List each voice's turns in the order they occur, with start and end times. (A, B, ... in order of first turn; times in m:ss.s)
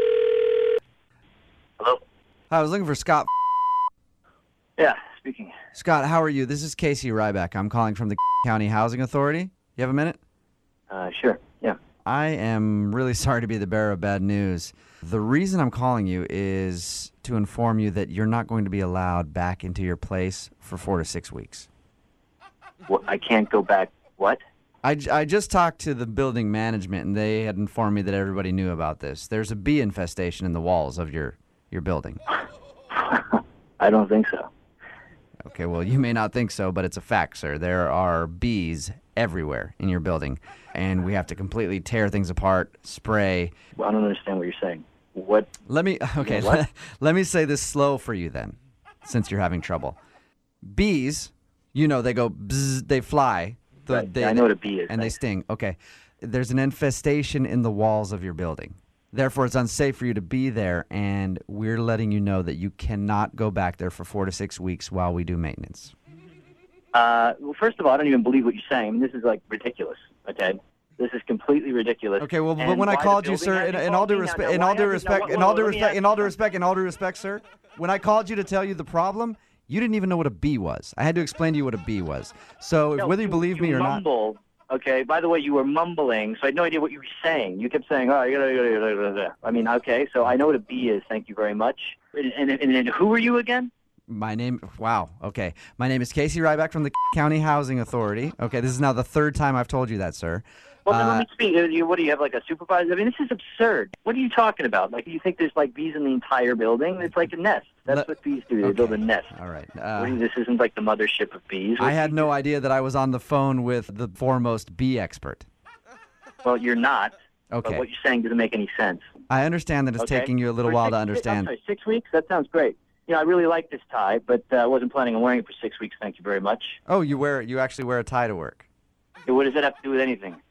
0:02.5-0:03.3 A
0:04.8-0:05.5 B
0:05.7-0:10.2 A
0:10.9-0:11.8 B
0:12.0-0:21.7 A
0:22.9-0:24.4 B
0:24.8-0:32.2 A
0:32.9-0:34.5 B
0:35.4-0:43.5 A
0:43.8-0:45.5 B
0:45.7-0:50.0 A
0:46.2-0:46.6 B
0:50.6-1:05.9 A
0:53.9-0:55.2 B
1:06.9-1:16.3 B
1:12.2-1:24.0 A
1:22.9-1:33.7 B
1:34.1-1:41.2 A
1:40.8-1:49.3 B
1:48.6-1:50.2 A
1:50.0-1:52.3 B
1:51.8-1:55.4 A
1:56.4-1:57.1 B
1:57.5-1:57.8 A
1:57.6-1:59.0 B
1:59.3-2:01.5 A
2:00.0-2:06.8 B
2:06.9-2:08.6 A
2:09.2-2:10.4 B